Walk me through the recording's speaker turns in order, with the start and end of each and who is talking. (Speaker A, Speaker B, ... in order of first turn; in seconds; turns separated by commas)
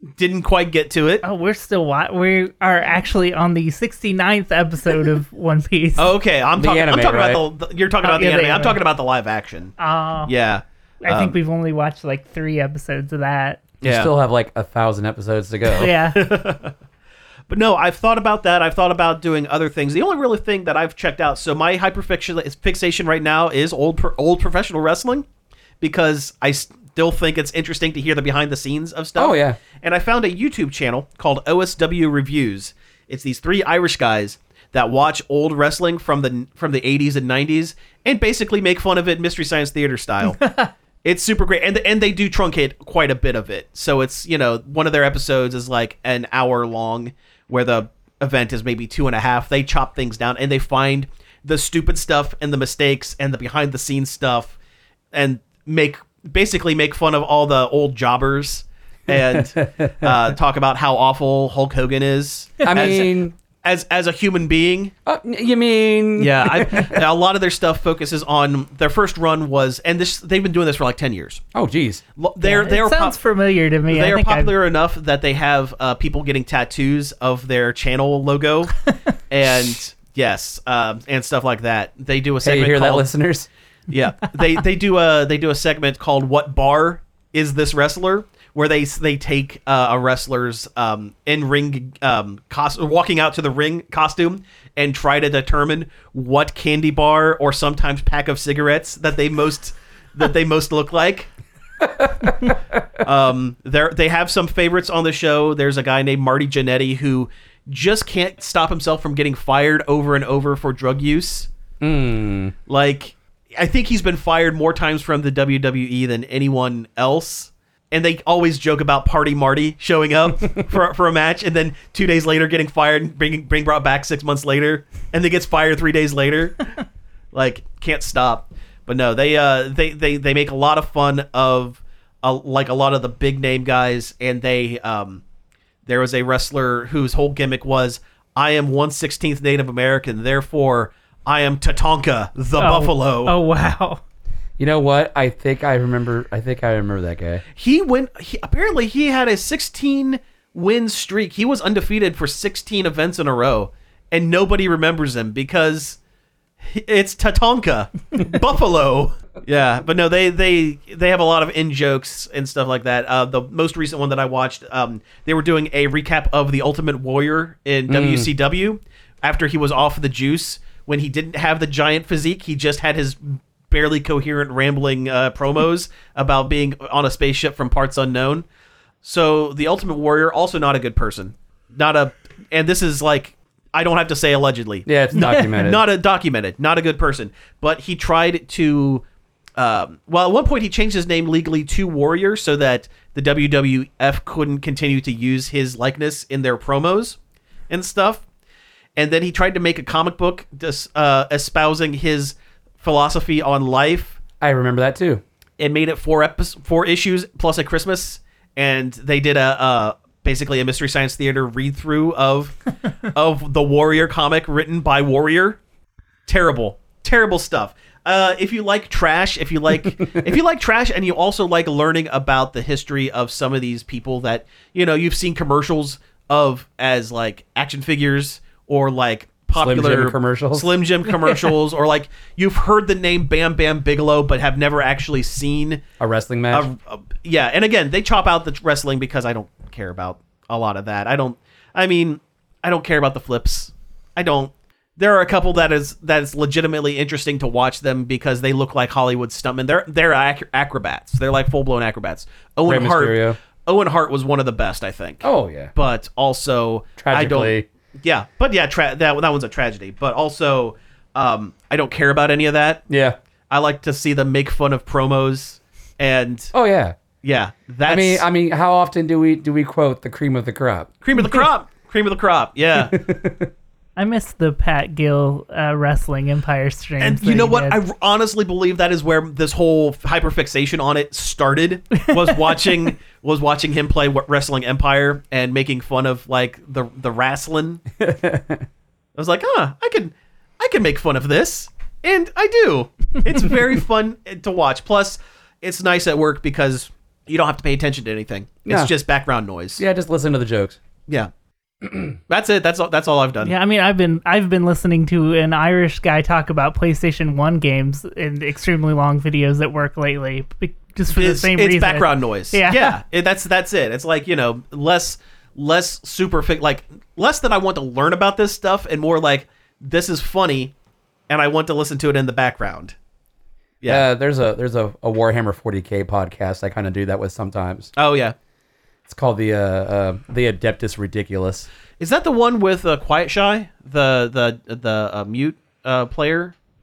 Speaker A: 0.2-1.2, Speaker B: 1.2-6.1, Speaker A: 6.0-9.8, Speaker C: 6.6-7.4, Speaker B: 8.0-8.8, Speaker B: 9.8-10.3, Speaker A: 10.3-11.3, Speaker B: 11.0-13.6, Speaker A: 13.8-14.1, Speaker C: 13.8-15.9, Speaker B: 15.7-16.2, Speaker A: 15.9-16.7, Speaker A: 17.5-25.2, Speaker A: 25.8-40.4, Speaker C: 29.2-29.6, Speaker A: 41.0-54.6, Speaker A: 55.1-64.9, Speaker C: 59.1-60.1, Speaker C: 62.7-63.3, Speaker C: 65.1-67.0, Speaker A: 66.2-71.4, Speaker C: 71.5-72.0, Speaker A: 72.2-73.2, Speaker B: 72.4-74.5, Speaker A: 73.9-78.8, Speaker A: 79.3-83.1, Speaker C: 82.4-83.5, Speaker A: 83.9-101.3, Speaker C: 102.0-102.5, Speaker A: 103.0-111.5, Speaker C: 111.8-112.5, Speaker A: 112.7-126.7, Speaker A: 127.3-135.2, Speaker A: 135.9-143.4, Speaker B: 142.6-144.0, Speaker C: 144.6-147.4, Speaker A: 147.6-156.0, Speaker A: 156.6-178.5, Speaker C: 167.9-168.3, Speaker A: 179.0-189.0, Speaker C: 184.9-185.8, Speaker A: 189.6-197.2, Speaker A: 197.7-198.2, Speaker A: 199.0-204.2, Speaker C: 204.4-205.2, Speaker A: 205.6-212.6, Speaker A: 213.1-215.6, Speaker A: 216.3-235.8, Speaker C: 229.6-230.7, Speaker C: 236.0-236.7, Speaker A: 236.5-262.8, Speaker C: 252.7-253.4, Speaker C: 255.2-255.7, Speaker C: 257.0-257.6, Speaker C: 262.9-263.2, Speaker A: 263.5-266.5, Speaker C: 266.5-267.0, Speaker A: 267.2-268.3, Speaker C: 267.9-270.9, Speaker A: 271.0-273.0, Speaker C: 272.8-273.5, Speaker B: 274.0-277.8, Speaker A: 277.0-287.8, Speaker B: 282.1-282.6, Speaker C: 288.0-288.6, Speaker A: 289.2-299.8, Speaker C: 298.7-298.9, Speaker C: 299.8-300.8, Speaker A: 302.3-303.6, Speaker B: 303.4-313.0, Speaker A: 311.1-320.7, Speaker A: 321.3-322.9, Speaker C: 323.9-327.9, Speaker A: 328.0-328.4, Speaker C: 329.1-331.7, Speaker A: 332.0-336.6